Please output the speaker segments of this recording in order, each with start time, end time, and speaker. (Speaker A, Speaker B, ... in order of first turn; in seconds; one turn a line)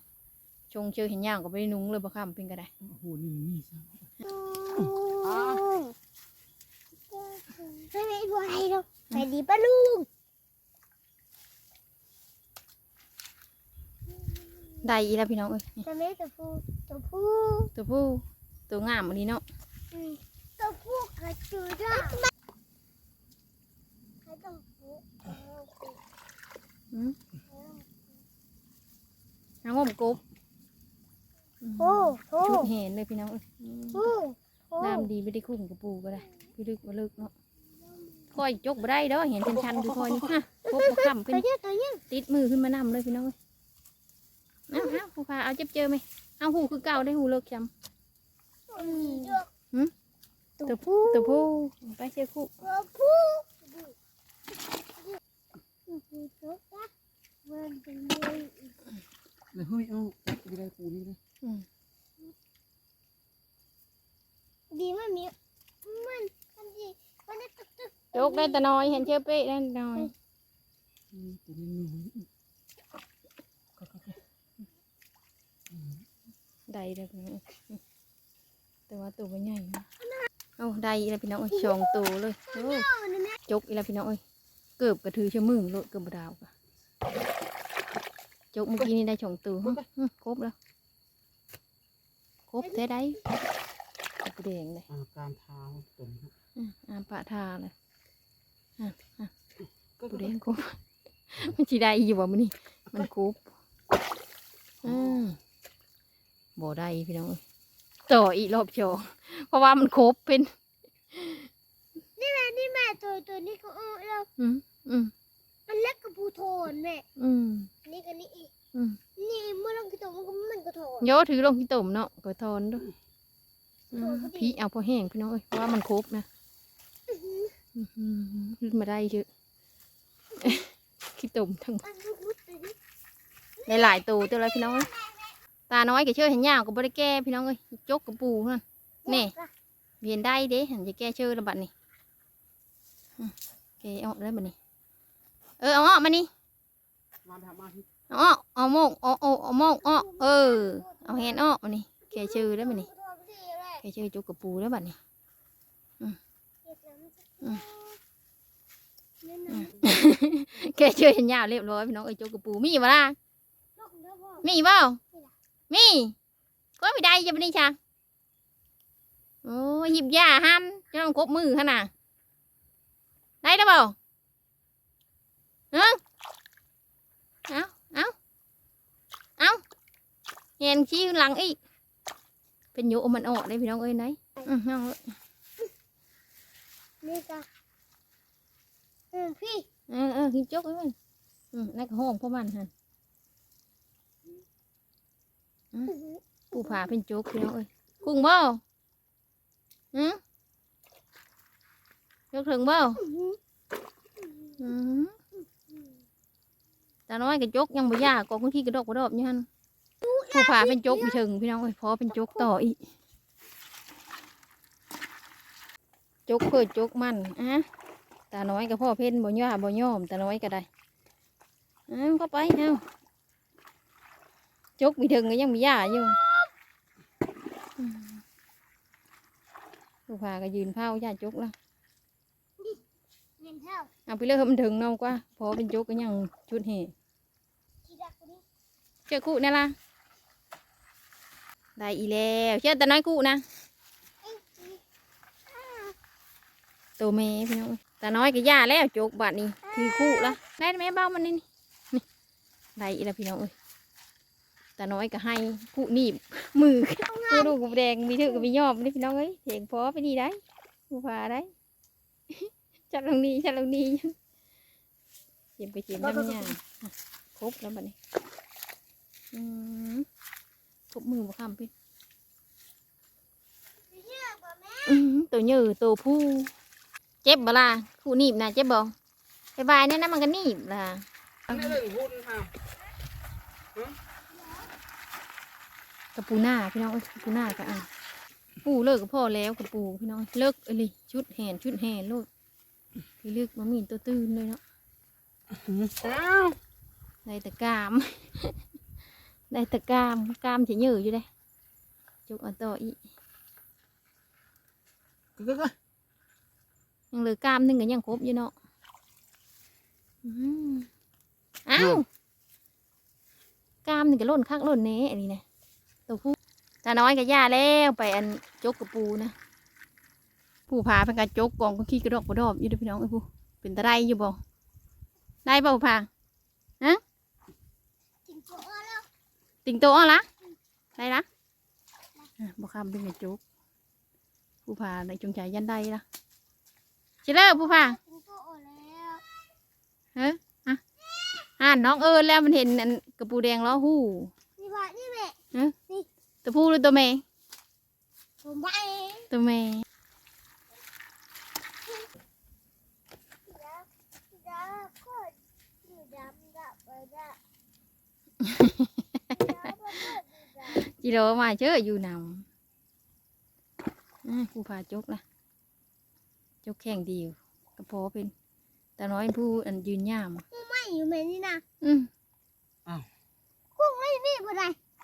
Speaker A: 0.7-2.7
Speaker B: 2.8-4.1
Speaker C: 4.2-5.9
Speaker B: 4.7-5.6
Speaker C: 7.1-10.1
Speaker A: 14.8-15.8
Speaker C: 15.8-17.7
Speaker A: 17.7-19.4
Speaker C: 19.9-22.3
Speaker C: 24.2-26.0
Speaker A: 26.9-27.2
Speaker C: 27.5-28.0
Speaker A: 29.6-30.2
Speaker A: 31.6-34.1
Speaker C: 31.8-32.7
Speaker C: 33.9-35.1
Speaker A: 34.8-37.3
Speaker A: 38.3-41.4
Speaker B: 39.8-40.1
Speaker C: 40.7-42.0
Speaker A: 42.1-43.3
Speaker A: 44.7-47.7
Speaker C: 48.7-49.5
Speaker A: 48.8-49.9
Speaker C: 50.6-51.5
Speaker A: 50.6-52.5
Speaker C: 52.6-53.9
Speaker C: 55.9-56.9
Speaker C: 57.5-58.7
Speaker B: 59.5-61.2
Speaker C: 64.7-69.1
Speaker A: 68.1-70.1
Speaker B: 71.1-72.2
Speaker B: 73.8-74.2
Speaker B: 75.7-76.0
Speaker A: 76.7-77.8
Speaker A: 78.9-79.8
Speaker A: 80.6-82.9
Speaker C: 81.5-83.4
Speaker A: 83.5-84.2
Speaker A: 84.8-86.5
Speaker A: 88.5-90.5
Speaker A: 92.5-93.2
Speaker A: 94.2-94.9
Speaker B: 94.9-96.3
Speaker A: 96.6-97.7
Speaker A: 98.8-99.3
Speaker B: 100.0-100.3
Speaker A: 100.1-100.8
Speaker A: 101.3-103.5
Speaker A: 104.8-105.4
Speaker B: 104.9-105.2
Speaker A: 106.6-107.4
Speaker A: 108.1-110.5
Speaker A: 111.1-111.5
Speaker C: 112.2-114.3
Speaker A: 114.4-115.1
Speaker C: 115.7-117.0
Speaker A: 117.2-117.7
Speaker C: 117.8-118.5
Speaker A: 118.7-119.0
Speaker C: 119.2-121.1
Speaker A: 121.0-122.9
Speaker A: 123.9-126.2
Speaker C: 123.9-124.5
Speaker C: 127.1-127.5
Speaker A: 127.8-129.3
Speaker A: 130.4-131.8
Speaker C: 131.8-132.8
Speaker A: 133.7-134.9
Speaker C: 133.7-135.3
Speaker A: 135.7-139.3
Speaker C: 139.1-139.5
Speaker A: 140.0-141.7
Speaker A: 143.2-144.6
Speaker A: 145.6-146.3
Speaker B: 147.2-147.8
Speaker A: 148.1-152.9
Speaker C: 149.8-151.4
Speaker C: 152.1-153.8
Speaker A: 153.8-155.0
Speaker C: 156.6-158.0
Speaker C: 159.2-159.9
Speaker A: 159.5-163.2
Speaker C: 163.8-164.5
Speaker A: 164.4-165.0
Speaker A: 165.7-166.1
Speaker A: 166.8-167.8
Speaker A: 169.4-171.9
Speaker A: 173.4-173.9
Speaker A: 175.7-176.0
Speaker A: 177.5-178.1
Speaker A: 180.6-181.6
Speaker A: 182.7-185.1
Speaker C: 187.0-187.5
Speaker C: 189.1-189.7
Speaker A: 189.9-190.9
Speaker A: 191.5-192.7
Speaker C: 195.9-196.8
Speaker A: 196.5-198.6
Speaker A: 199.9-200.2
Speaker A: 202.3-203.0
Speaker C: 203.0-203.4
Speaker A: 204.6-205.2
Speaker A: 207.1-209.5
Speaker C: 210.0-211.2
Speaker A: 210.3-212.8
Speaker A: 216.3-217.7
Speaker A: 218.3-220.7
Speaker A: 221.9-222.8
Speaker A: 224.8-226.2
Speaker C: 225.9-226.5
Speaker A: 227.8-228.2
Speaker A: 230.1-231.5
Speaker C: 233.4-233.9
Speaker A: 234.1-236.9
Speaker C: 237.8-238.4
Speaker A: 239.1-239.7
Speaker A: 241.8-243.4
Speaker C: 244.2-244.8
Speaker C: 245.5-245.9
Speaker A: 247.0-252.0
Speaker C: 249.6-250.4
Speaker A: 252.8-253.5
Speaker A: 254.8-261.5
Speaker C: 257.1-257.6
Speaker A: 262.3-264.1
Speaker A: 265.6-267.9
Speaker C: 266.0-266.5
Speaker A: 269.3-270.1
Speaker A: 270.9-271.7
Speaker C: 273.9-275.0
Speaker A: 274.8-276.5
Speaker A: 277.2-278.9
Speaker A: 279.6-281.8
Speaker B: 281.5-282.5
Speaker A: 286.1-287.9
Speaker A: 288.6-292.3
Speaker A: 293.2-294.6
Speaker B: 295.5-296.6
Speaker A: 297.2-298.6
Speaker A: 299.5-301.3
Speaker A: 302.3-303.0
Speaker B: 305.4-305.7
Speaker A: 307.1-308.5
Speaker A: 310.2-310.9
Speaker A: 311.6-312.0
Speaker A: 313.8-315.4
Speaker A: 316.1-319.3
Speaker A: 320.7-324.4
Speaker A: 325.4-326.1
Speaker C: 328.2-329.1
Speaker A: 329.6-330.3
Speaker A: 331.0-331.2
Speaker A: 332.4-333.4
Speaker A: 334.6-336.0
Speaker A: 337.2-338.0
Speaker C: 337.4-339.2
Speaker A: 340.1-340.8
Speaker A: 341.6-344.3
Speaker C: 344.6-345.4
Speaker A: 346.4-347.2
Speaker C: 348.4-349.3
Speaker A: 349.3-349.8
Speaker C: 353.5-357.4
Speaker A: 358.4-359.7
Speaker C: 359.3-360.8
Speaker A: 360.7-362.4
Speaker A: 364.2-365.2
Speaker A: 366.6-368.3
Speaker A: 369.0-370.4
Speaker C: 370.5-371.6
Speaker A: 371.8-372.1
Speaker C: 373.8-374.8